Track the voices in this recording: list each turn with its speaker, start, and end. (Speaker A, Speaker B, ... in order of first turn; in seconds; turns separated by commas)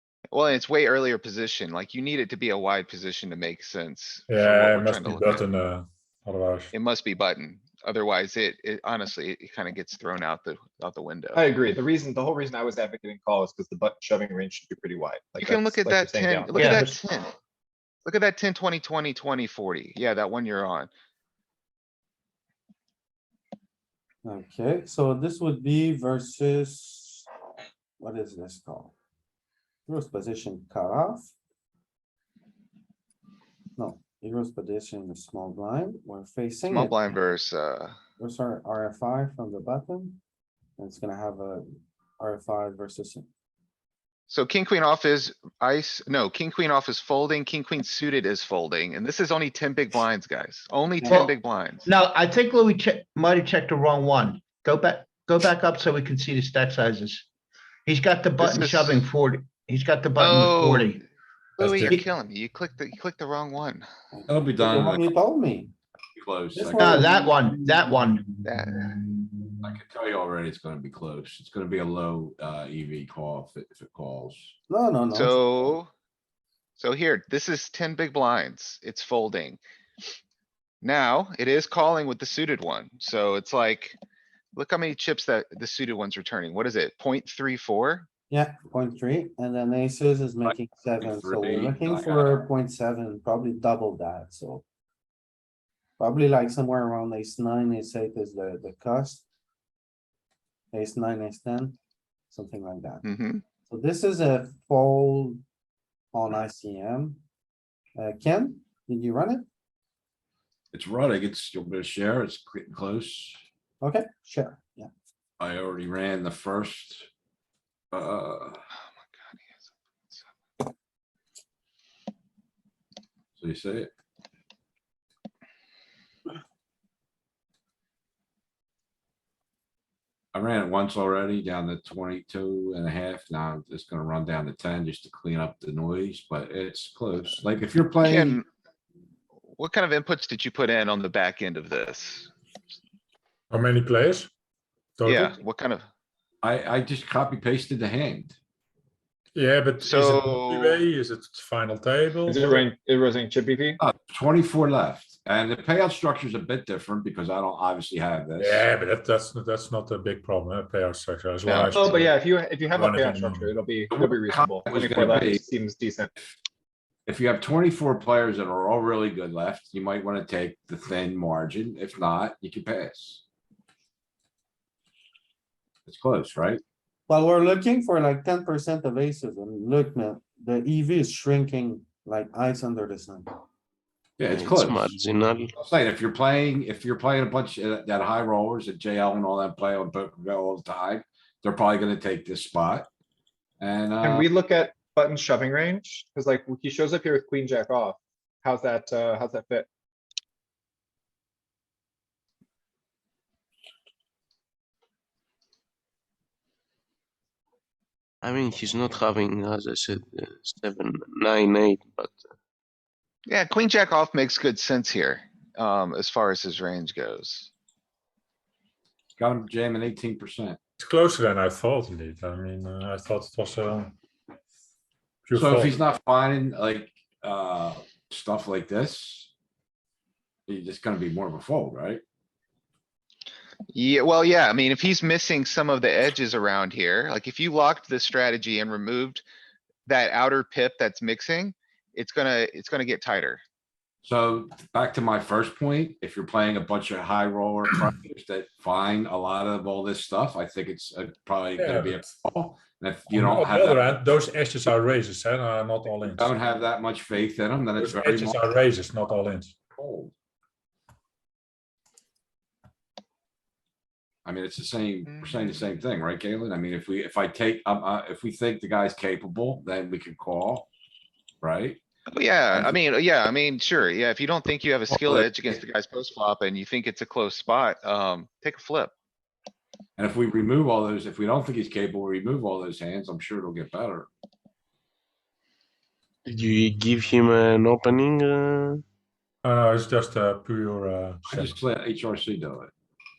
Speaker A: 0.3-5.4, Speaker B: 4.3-6.7, Speaker A: 6.7-11.5, Speaker C: 11.3-17.0, Speaker A: 15.4-17.3, Speaker D: 16.6-16.9, Speaker A: 18.1-20.9, Speaker E: 24.2-27.3, Speaker E: 28.0-28.9, Speaker E: 29.9-31.3, Speaker E: 33.8-37.1, Speaker A: 36.7-38.0, Speaker E: 38.2-40.2, Speaker E: 40.8-41.7, Speaker E: 42.2-43.3, Speaker A: 44.3-51.9, Speaker D: 51.0-51.3, Speaker D: 51.8-57.3, Speaker D: 57.9-61.0, Speaker A: 58.4-59.0, Speaker A: 60.2-61.0, Speaker B: 61.6-62.0, Speaker A: 61.6-63.9, Speaker E: 64.1-65.7, Speaker F: 64.3-65.1, Speaker F: 66.2-67.0, Speaker E: 66.5-67.2, Speaker D: 66.8-68.3, Speaker A: 68.5-68.8, Speaker F: 69.6-74.5, Speaker E: 74.7-75.4, Speaker A: 75.1-75.9, Speaker A: 76.8-79.6, Speaker A: 80.8-84.0, Speaker A: 84.5-88.1, Speaker E: 88.3-94.6, Speaker F: 90.5-92.5, Speaker E: 96.0-99.2, Speaker E: 100.7-101.8, Speaker E: 102.3-103.0, Speaker A: 103.0-103.4, Speaker E: 103.7-105.4, Speaker E: 106.1-107.2, Speaker E: 108.0-109.5, Speaker F: 110.7-113.4, Speaker E: 113.8-114.9, Speaker F: 115.4-117.1, Speaker F: 117.9-118.6, Speaker F: 123.4-123.9, Speaker F: 130.3-138.4, Speaker A: 138.0-138.5, Speaker A: 139.5-142.3, Speaker B: 143.5-144.3, Speaker B: 145.0-145.4, Speaker A: 145.1-145.9, Speaker F: 146.4-148.4, Speaker B: 149.3-152.6, Speaker A: 149.8-150.8, Speaker C: 152.3-153.8, Speaker F: 153.8-158.6, Speaker B: 158.4-163.6, Speaker C: 161.5-166.1, Speaker F: 163.9-165.4, Speaker F: 167.1-173.2, Speaker F: 175.9-176.6, Speaker E: 177.1-183.3, Speaker F: 184.2-185.0, Speaker G: 184.3-185.5, Speaker F: 185.6-192.9, Speaker F: 193.6-194.3, Speaker C: 194.0-199.7, Speaker G: 208.2-212.3, Speaker A: 213.3-217.5, Speaker F: 219.2-220.6, Speaker B: 220.8-223.9, Speaker B: 225.3-225.8, Speaker F: 225.3-229.3, Speaker F: 230.5-232.0, Speaker A: 233.7-239.2, Speaker A: 239.9-243.4, Speaker F: 244.0-254.0, Speaker B: 251.6-252.1, Speaker B: 253.1-256.3, Speaker F: 256.1-258.4, Speaker B: 257.8-259.6, Speaker F: 259.8-260.1, Speaker F: 264.2-270.7, Speaker F: 271.4-271.8, Speaker A: 272.1-278.9, Speaker F: 274.9-275.3, Speaker F: 280.0-284.1, Speaker G: 286.3-288.8, Speaker B: 289.4-291.6, Speaker F: 291.3-292.7